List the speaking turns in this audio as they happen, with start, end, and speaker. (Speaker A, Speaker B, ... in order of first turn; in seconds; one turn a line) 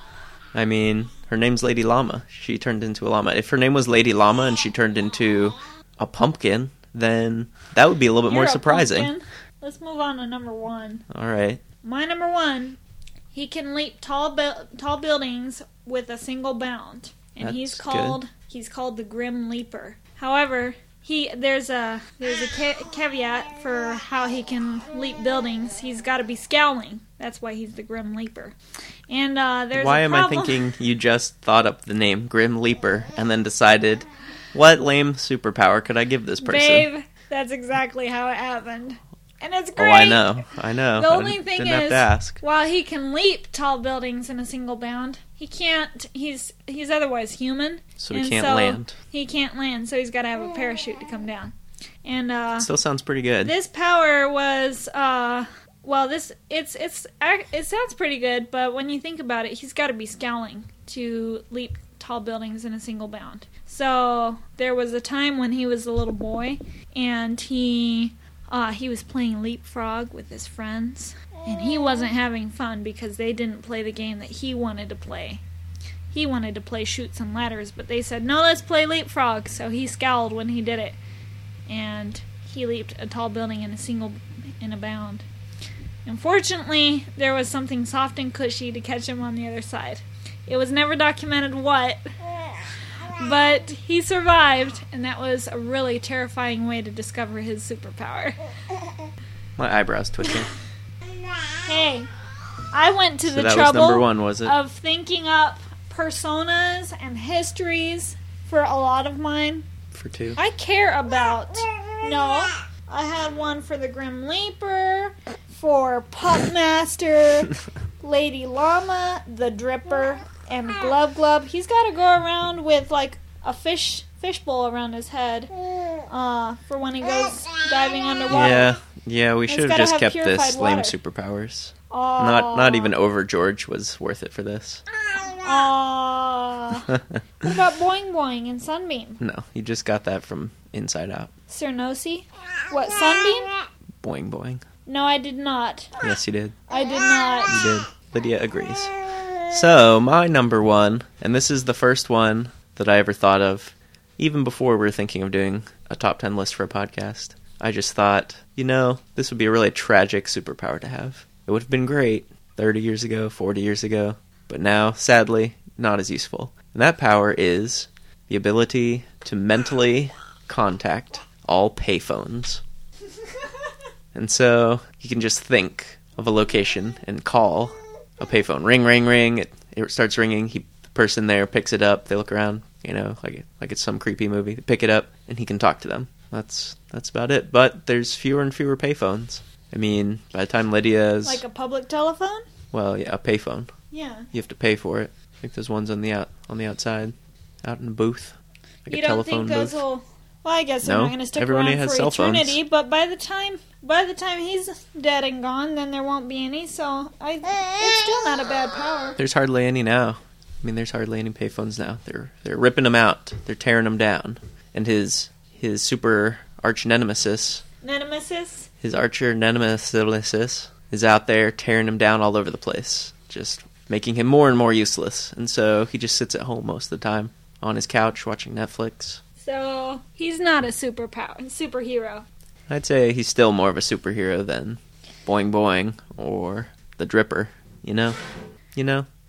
Speaker A: 0.5-9.1
Speaker B: 8.3-11.1
Speaker A: 11.1-11.6
Speaker B: 11.8-12.8
Speaker B: 13.3-28.6
Speaker A: 17.4-18.2
Speaker B: 29.1-30.7
Speaker A: 29.7-36.9
Speaker B: 36.4-40.4
Speaker A: 39.8-42.4
Speaker B: 41.0-52.7
Speaker A: 48.0-48.9
Speaker A: 52.6-53.5
Speaker B: 53.4-75.4
Speaker B: 76.1-81.0
Speaker B: 81.7-85.2
Speaker B: 86.1-92.0
Speaker B: 93.2-98.4
Speaker A: 99.6-100.5
Speaker B: 101.6-102.1
Speaker B: 102.7-109.7
Speaker A: 103.2-104.5
Speaker A: 109.9-110.4
Speaker B: 110.4-128.8
Speaker A: 128.3-134.8
Speaker B: 129.5-130.9
Speaker B: 131.9-132.9
Speaker B: 135.3-139.2
Speaker A: 136.9-137.2
Speaker A: 139.2-141.3
Speaker B: 141.5-143.6
Speaker A: 144.0-144.6
Speaker B: 144.9-146.0
Speaker A: 146.0-146.6
Speaker B: 146.7-147.6
Speaker A: 147.5-148.9
Speaker A: 149.5-172.6
Speaker A: 174.1-191.4
Speaker B: 191.2-192.5
Speaker A: 192.7-193.7
Speaker B: 193.9-194.3
Speaker A: 194.3-199.8
Speaker B: 198.9-209.2
Speaker A: 200.8-202.6
Speaker A: 209.2-217.6
Speaker B: 217.8-218.7
Speaker A: 218.8-229.2
Speaker B: 229.4-232.3
Speaker A: 232.7-238.2
Speaker A: 238.8-239.1